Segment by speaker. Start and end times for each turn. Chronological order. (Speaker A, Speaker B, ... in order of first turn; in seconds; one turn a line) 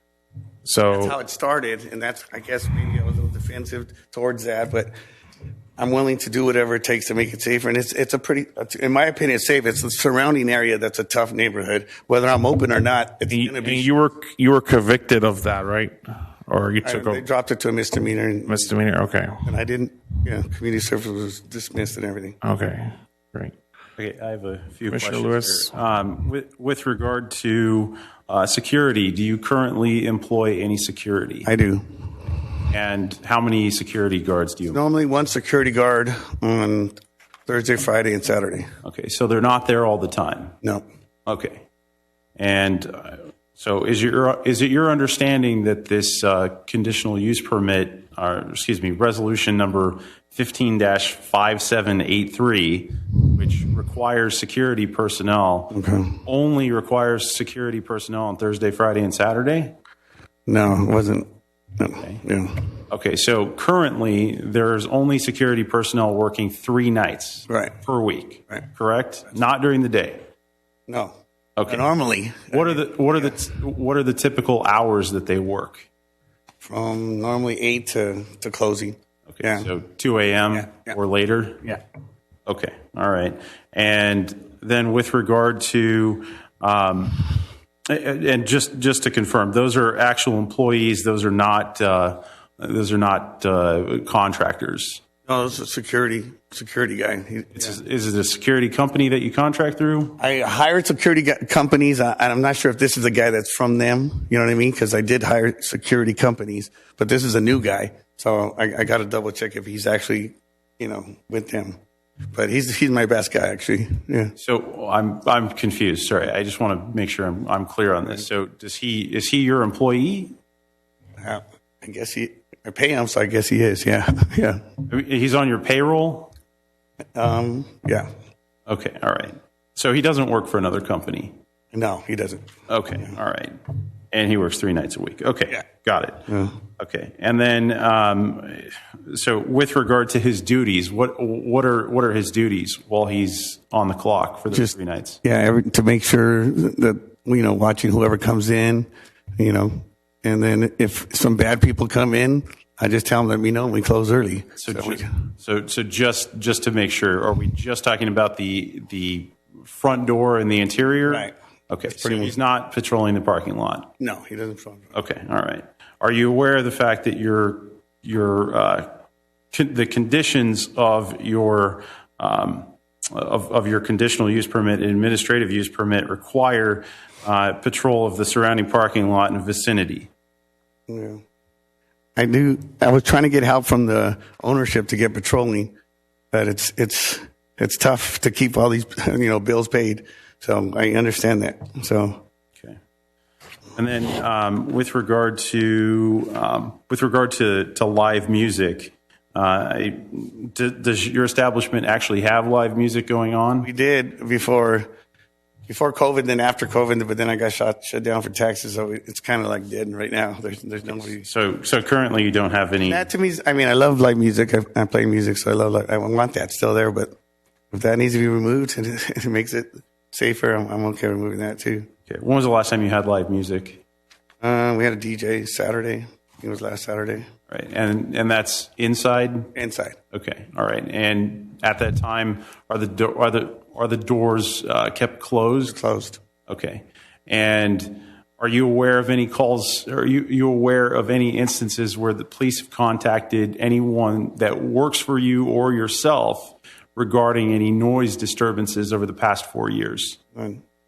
Speaker A: 0.6-1.1
Speaker B: 0.9-4.9
Speaker B: 5.8-13.9
Speaker A: 13.3-17.2
Speaker B: 16.8-18.8
Speaker A: 18.5-19.4
Speaker B: 19.4-22.4
Speaker A: 22.4-23.5
Speaker C: 24.0-31.5
Speaker A: 24.9-25.6
Speaker B: 31.4-31.8
Speaker C: 32.6-34.8
Speaker B: 34.7-38.7
Speaker C: 38.8-40.5
Speaker C: 41.2-41.6
Speaker C: 42.4-59.8
Speaker B: 55.7-56.2
Speaker B: 60.5-62.6
Speaker C: 62.9-70.3
Speaker B: 67.5-67.8
Speaker B: 70.9-71.1
Speaker C: 71.6-71.8
Speaker B: 71.7-73.4
Speaker C: 72.5-75.8
Speaker B: 76.6-79.7
Speaker C: 79.3-81.8
Speaker B: 80.5-81.0
Speaker C: 82.5-95.0
Speaker B: 95.3-97.8
Speaker C: 97.5-100.2
Speaker B: 100.2-111.8
Speaker B: 112.3-114.3
Speaker C: 114.4-120.3
Speaker B: 121.2-124.6
Speaker C: 124.9-126.3
Speaker B: 127.1-128.1
Speaker C: 128.7-131.4
Speaker B: 131.7-132.5
Speaker C: 132.7-145.2
Speaker B: 136.3-136.6
Speaker B: 144.5-155.1
Speaker C: 154.6-163.9
Speaker B: 161.1-161.3
Speaker B: 161.9-162.3
Speaker B: 164.0-164.9
Speaker C: 164.9-169.0
Speaker C: 169.5-180.1
Speaker B: 180.9-181.2
Speaker B: 182.2-185.7
Speaker B: 186.3-192.2
Speaker C: 193.8-203.7
Speaker B: 203.6-204.9
Speaker B: 205.7-211.2
Speaker C: 210.8-213.1
Speaker B: 212.8-217.2
Speaker B: 217.7-221.9
Speaker C: 222.1-223.8
Speaker B: 224.4-227.3
Speaker C: 227.5-229.5
Speaker B: 229.5-229.9
Speaker C: 230.1-235.8
Speaker B: 235.7-236.2
Speaker C: 236.5-250.2
Speaker B: 250.3-250.6